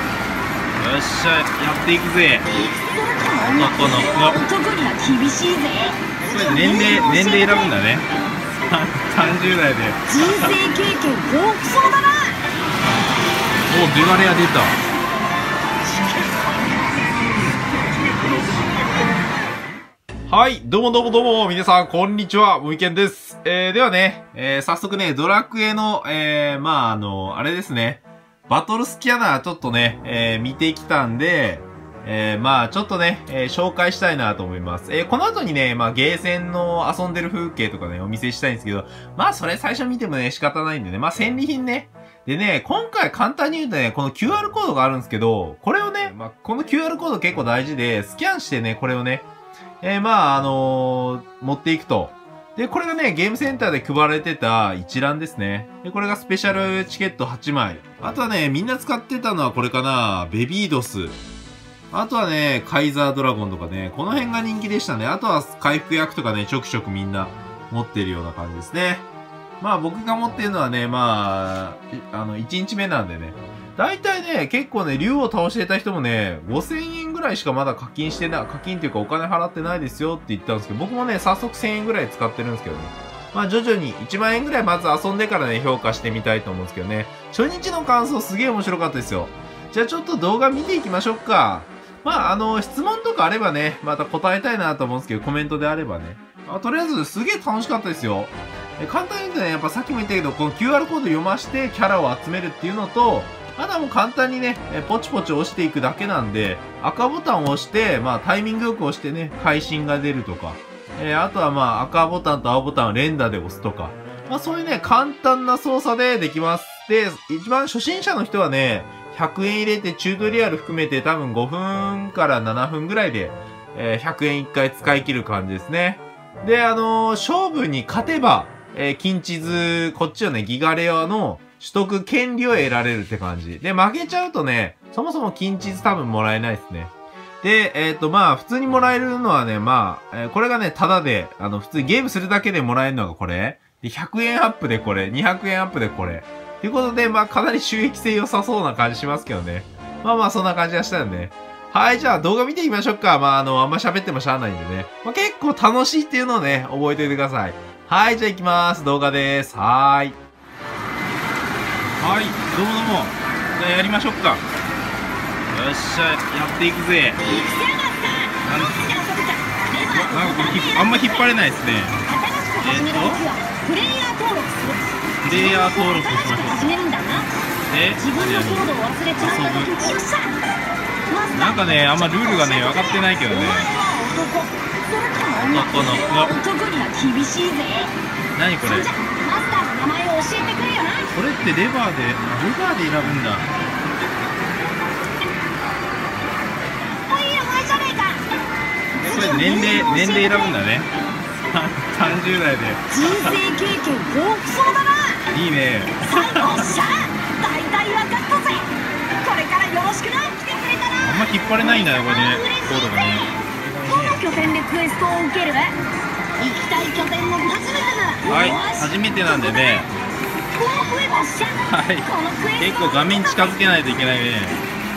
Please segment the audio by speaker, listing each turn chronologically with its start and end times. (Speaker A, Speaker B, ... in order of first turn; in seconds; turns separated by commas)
Speaker A: 0.8-2.5, Speaker B: 2.5-7.8, Speaker A: 3.5-4.4, Speaker A: 6.2-8.1, Speaker A: 8.6-10.6, Speaker B: 10.1-12.4, Speaker A: 13.7-14.8, Speaker B: 15.8-16.9, Speaker A: 20.3-49.3, Speaker A: 49.8-61.2, Speaker A: 61.9-69.1, Speaker A: 69.6-160.2, Speaker A: 162.0-164.4, Speaker A: 165.5-167.2, Speaker B: 167.2-171.4, Speaker A: 168.4-168.9, Speaker A: 169.9-172.0, Speaker B: 172.1-177.3, Speaker A: 172.6-173.2, Speaker A: 175.2-176.8, Speaker A: 177.7-178.7, Speaker B: 177.9-180.4, Speaker A: 179.2-179.8, Speaker B: 181.1-187.9, Speaker A: 181.3-183.7, Speaker A: 185.4-186.3, Speaker A: 188.3-188.9, Speaker B: 188.6-191.1, Speaker A: 191.1-193.5, Speaker B: 197.0-198.2, Speaker B: 199.0-200.6, Speaker A: 199.0-203.4, Speaker B: 202.9-205.3, Speaker A: 205.3-206.7, Speaker B: 206.0-213.3, Speaker A: 211.0-214.2, Speaker B: 213.9-215.8, Speaker B: 216.4-219.9, Speaker A: 218.3-219.9, Speaker B: 220.5-223.7, Speaker A: 221.7-224.6